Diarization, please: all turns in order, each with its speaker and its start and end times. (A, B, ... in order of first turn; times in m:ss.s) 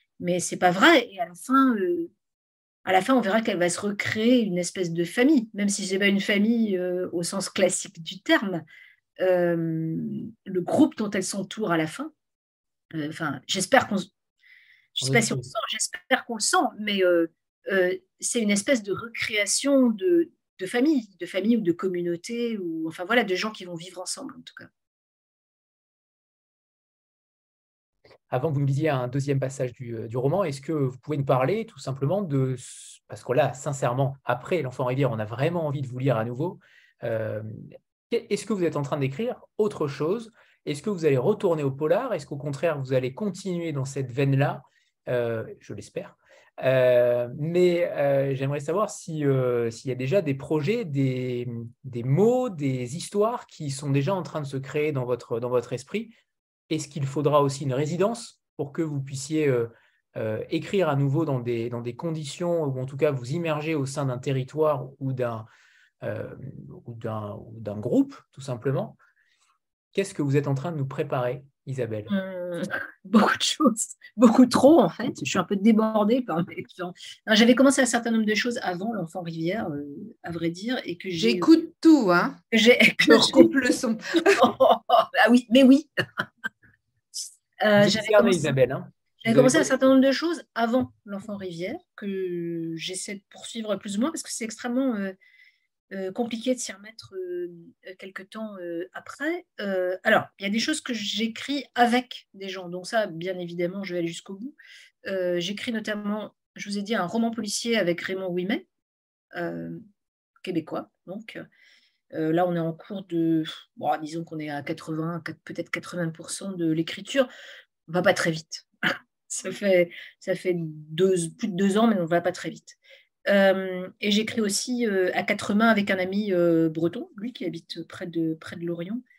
0:00.2-0:02.1 A
0:02.8-0:08.6 A
0:09.2-0:12.1 A
0:12.9-0:14.1 A
0:15.0-0:24.7 A
0:15.0-0:15.4 B
0:28.3-0:56.1 B
0:56.7-1:05.5 B
1:06.0-1:09.0 B
1:09.9-1:12.1 B
1:12.1-1:21.5 A
1:21.2-1:22.4 C
1:22.5-1:23.5 A
1:23.1-1:24.4 C
1:24.3-1:26.2 A
1:27.6-1:28.6 A
1:27.8-1:29.7 B
1:29.2-1:35.1 A
1:35.9-1:44.5 A
1:45.0-1:48.6 A
1:49.3-1:49.8 A
1:50.4-1:51.4 A
1:52.1-1:57.3 A
1:57.9-1:58.7 A
1:59.3-2:09.0 A